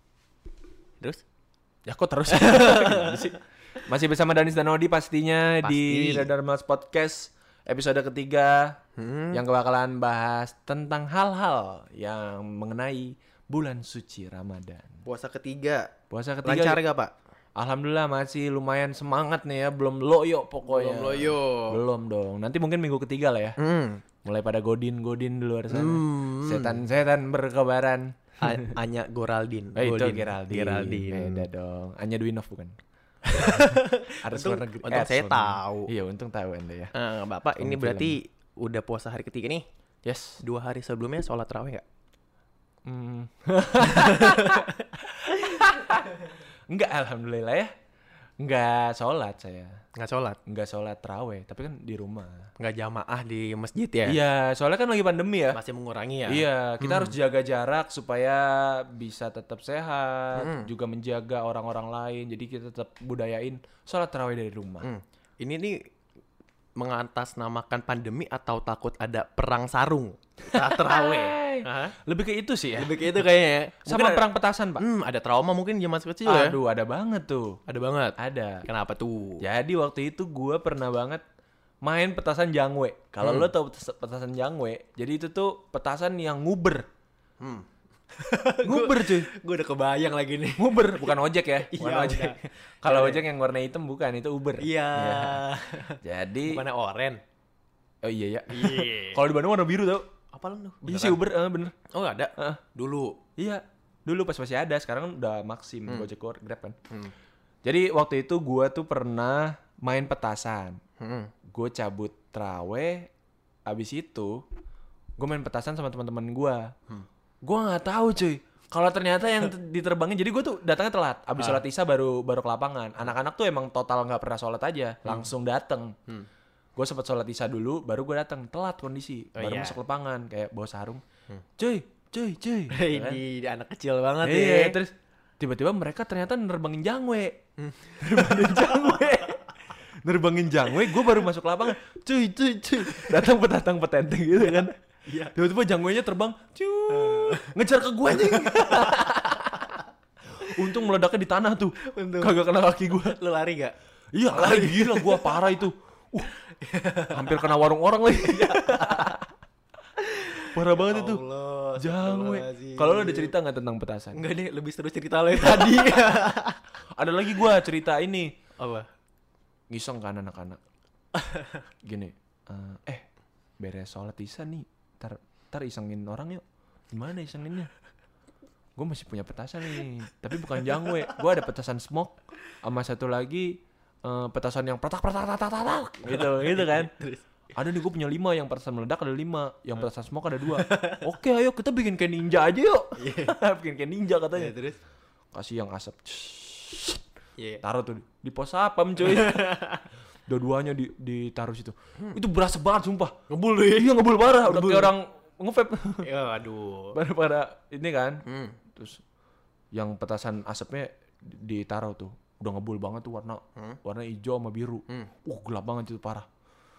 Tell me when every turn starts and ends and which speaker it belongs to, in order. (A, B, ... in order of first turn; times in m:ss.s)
0:01.9-0:08.8 A
0:02.3-0:03.3 B
0:05.6-0:06.3 B
0:09.0-0:09.4 B
0:09.3-0:15.0 A
0:15.1-0:15.9 B
0:16.1-0:16.8 A
0:16.4-0:17.1 B
0:17.6-0:23.6 A
0:20.6-0:21.8 B
0:23.6-0:24.0 B
0:24.2-0:28.7 A
0:25.7-0:26.8 B
0:28.4-0:31.5 B
0:29.8-0:32.8 A
0:33.3-0:35.9 B
0:34.2-0:36.9 A
0:36.9-0:39.6 B
0:37.6-0:38.2 A
0:40.0-0:40.4 A
0:40.4-0:41.8 B
0:42.9-0:47.7 A
0:44.1-0:44.7 B
0:48.4-0:49.8 A
0:50.0-0:50.4 B
0:50.5-0:52.5 A
0:52.6-0:54.2 B
0:54.0-0:55.6 A
0:55.5-0:57.2 B
0:56.3-1:04.9 A
1:00.4-1:00.7 B
1:04.8-1:05.8 B
1:06.8-1:12.0 B
1:10.5-1:13.1 A
1:12.8-1:14.3 B
1:13.9-1:14.8 A
1:14.8-1:16.6 B
1:16.2-1:17.6 A
1:17.7-1:19.4 B
1:18.2-1:18.7 A
1:19.4-1:21.2 A
1:21.8-1:26.8 A
1:23.2-1:23.5 B
1:27.4-1:33.2 B
1:28.6-1:29.3 A
1:30.6-1:35.4 A
1:34.6-1:37.2 B
1:36.0-1:36.6 A
1:38.0-1:40.1 A
1:38.5-1:39.2 B
1:40.3-1:41.2 B
1:40.8-1:41.8 A
1:41.9-1:43.2 B
1:43.4-1:46.8 A
1:47.6-1:50.8 A
1:51.0-1:51.3 B
1:51.5-1:53.1 A
1:53.7-1:54.4 A
1:55.2-1:56.7 A
1:57.4-2:06.0 A
2:01.4-2:01.6 B
2:06.8-2:11.0 A
2:09.4-2:09.8 B
2:11.6-2:13.2 A
2:12.7-2:14.8 B
2:14.2-2:24.8 A
2:17.6-2:19.0 B
2:24.4-2:25.3 B
2:25.3-2:29.8 A
2:26.9-2:27.5 B
2:28.1-2:29.8 B
2:30.3-2:33.2 A
2:31.8-2:33.8 B
2:34.1-2:36.3 A
2:34.3-2:35.6 B
2:36.4-2:37.5 B
2:37.1-2:39.2 A
2:38.1-2:39.2 B
2:40.0-2:43.3 B
2:40.5-2:41.2 A
2:41.8-2:44.2 A
2:44.1-2:46.6 B
2:45.4-2:46.1 A
2:47.0-2:48.3 A
2:48.6-2:48.9 B
2:49.7-2:50.6 A
2:51.2-2:51.5 B
2:51.8-2:53.0 A
2:53.6-2:57.7 A
2:58.8-3:06.9 A
3:06.0-3:07.2 B
3:07.5-3:14.6 A
3:10.5-3:11.0 B
3:13.0-3:13.4 B
3:14.3-3:14.8 B
3:15.3-3:17.0 A
3:17.6-3:19.7 A
3:19.0-3:19.8 B
3:20.3-3:26.1 A
3:23.3-3:24.9 B
3:26.0-3:27.0 B
3:26.9-3:29.0 A
3:28.3-3:28.6 B
3:29.7-3:36.3 A